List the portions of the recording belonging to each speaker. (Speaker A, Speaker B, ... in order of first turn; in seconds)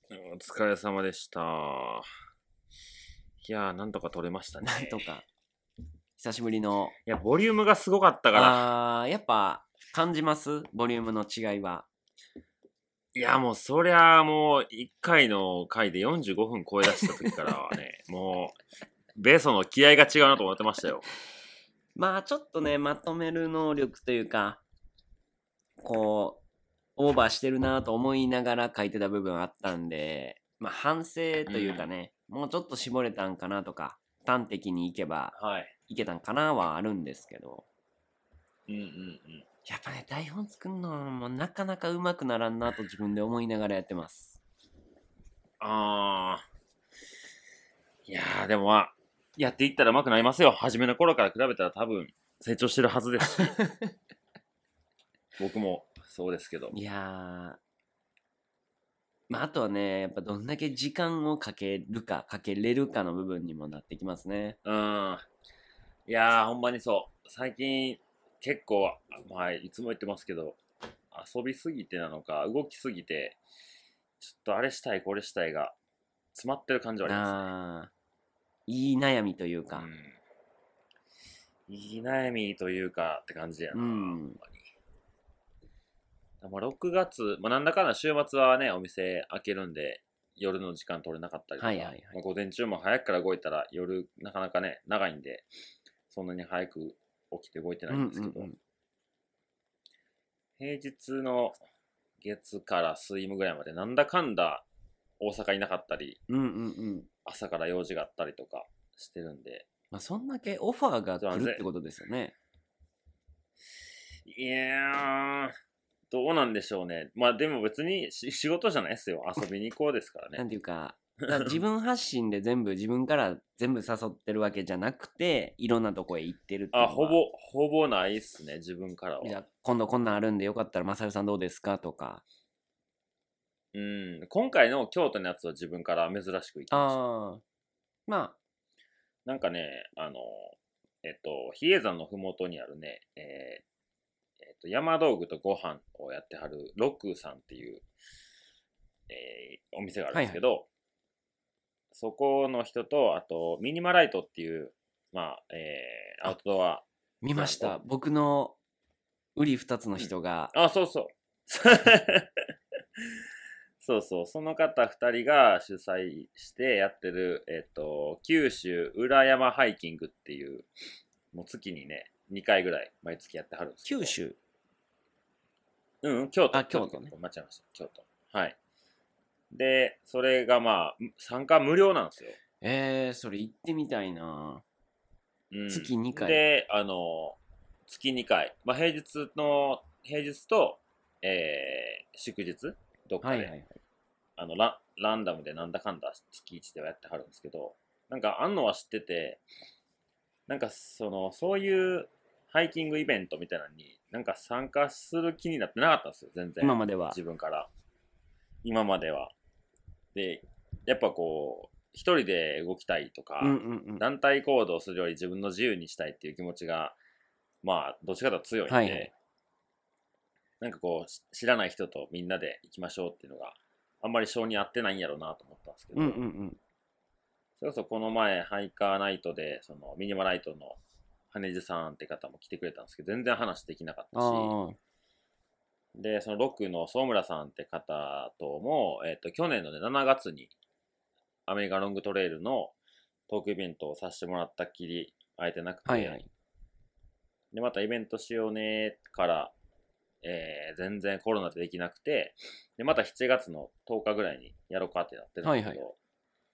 Speaker A: 0.1-2.1, 3.4-5.0, 7.1-8.7, 13.1-18.6, 19.1-21.1, 31.5-31.9, 35.4-35.7, 38.7-39.5, 45.6-46.5, 48.1-53.6, 55.4-56.7, 64.6-65.3, 66.1-70.6, 71.1-73.4, 74.2-75.8, 76.3-77.5, 79.8-80.2, 81.7-84.7, 86.4-95.5, 96.1-98.5, 100.6-101.6, 102.2-104.7, 105.2-106.2, 107.2-109.7, 111.2-111.6, 114.2-115.6, 116.1-120.4, 126.7-129.4, 133.7-137.0, 139.2-143.6, 144.4-147.8, 149.1-150.7, 151.9-157.8, 160.0-163.2, 163.8-170.7, 171.3-174.2, 176.0-178.6, 179.5-182.4, 185.5-193.5, 194.4-199.4, 200.5-207.7, 208.6-209.3, 210.1-217.0, 217.6-219.1, 220.6-226.2, 227.6-230.8, 231.3-234.6, 235.9-240.5, 241.5-242.8, 243.3-246.2, 247.5-249.5, 250.2-256.0
Speaker B: 4.6-5.3, 6.2-7.0, 8.3-11.9, 22.0-24.6, 25.8-26.4, 27.0-35.4, 35.9-37.7, 39.7-44.4, 53.4-53.9, 56.7-57.6, 59.3-64.6, 77.0-77.9, 78.7-79.9, 83.7-84.4, 91.6-92.2, 97.9-98.6, 106.3-107.1, 109.9-112.3, 120.4-127.2, 129.2-132.2, 136.7-137.4, 138.1-138.4, 150.1-150.4, 157.2-158.6, 159.4-160.5, 173.8-174.4, 176.5-177.1, 182.6-184.6, 185.7-186.4, 193.2-193.8, 206.6-207.2, 213.4-214.0, 218.7-219.1, 225.9-226.6, 234.1-234.8, 245.9-246.3, 255.4-255.8